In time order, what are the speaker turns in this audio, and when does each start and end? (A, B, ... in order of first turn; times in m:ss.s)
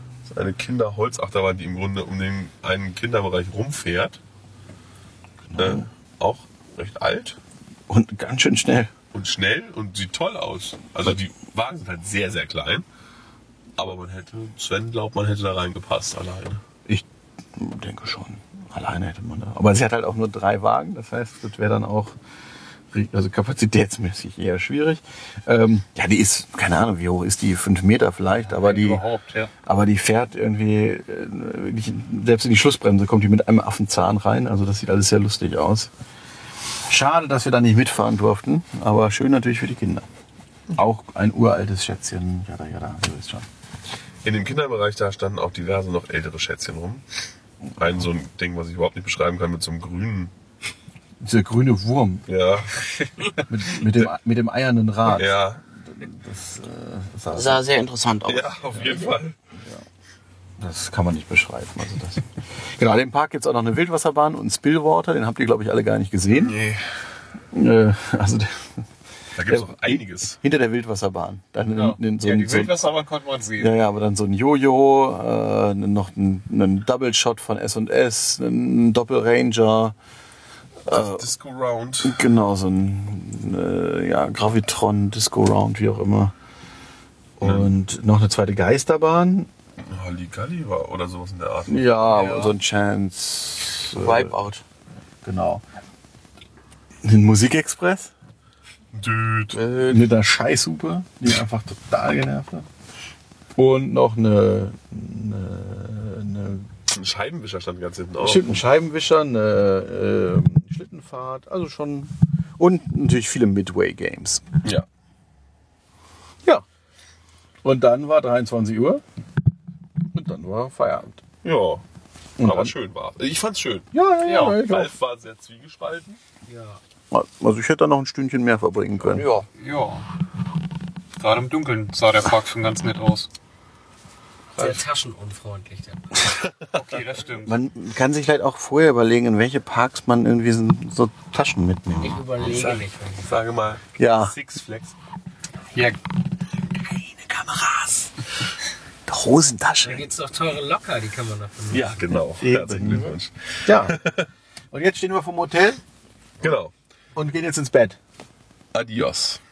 0:00.2-0:04.2 A
0:05.4-0:05.9 B
0:05.6-0:07.4 A
0:07.9-0:08.9 B
0:09.1-0:12.8 A
0:13.8-0:16.6 A
0:17.6-0:22.1 B
0:22.9-0:29.0 B
0:28.4-0:29.5 C
0:29.6-0:35.9 B
0:36.9-0:40.0 B
0:40.7-0:43.5 B
0:44.2-0:47.0 A
0:47.8-0:50.3 A
0:51.2-0:52.2 B
0:52.3-0:52.8 A
0:53.5-0:57.6 B
0:53.8-0:54.1 A
0:55.1-0:55.6 A
0:57.3-0:58.5 D
0:58.2-0:59.3 A
1:00.6-1:02.2 B
1:02.8-1:06.6 B
1:06.3-1:06.9 A
1:07.5-1:08.6 B
1:09.4-1:10.4 A
1:09.4-1:12.8 B
1:11.7-1:13.7 C
1:13.6-1:19.9 B
1:20.9-1:21.2 B
1:20.9-1:22.3 A
1:22.0-1:26.3 B
1:27.4-1:29.5 B
1:27.4-1:27.7 A
1:29.8-1:31.9 A
1:31.7-1:34.3 B
1:32.0-1:32.5 C
1:34.0-1:34.6 D
1:35.2-1:35.6 B
1:37.0-1:38.1 B
1:38.9-1:40.0 A
1:39.7-1:42.7 B
1:43.6-1:46.7 B
1:46.9-1:48.6 A
1:48.2-1:54.5 B
1:57.6-1:59.0 B
2:00.1-2:01.2 B
2:01.4-2:01.8 A
2:02.4-2:02.7 B
2:02.4-2:03.9 A
2:03.9-2:04.9 B
2:04.2-2:04.6 C
2:04.5-2:06.2 A
2:06.5-2:06.8 E
2:07.1-2:09.2 B
2:09.0-2:09.5 D
2:09.6-2:10.0 C
2:11.2-2:13.3 C
2:14.5-2:16.3 E
2:16.7-2:17.6 C
2:17.4-2:22.2 B
2:22.0-2:23.4 E
2:22.4-2:24.9 A
2:24.0-2:24.3 B
2:27.2-2:28.0 B
2:29.1-2:30.0 B
2:29.8-2:32.0 E
2:31.7-2:34.3 A
2:32.4-2:33.1 B
2:33.6-2:34.0 B
2:34.7-2:35.8 B
2:36.4-2:36.7 A
2:37.1-2:38.0 B
2:38.7-2:39.4 A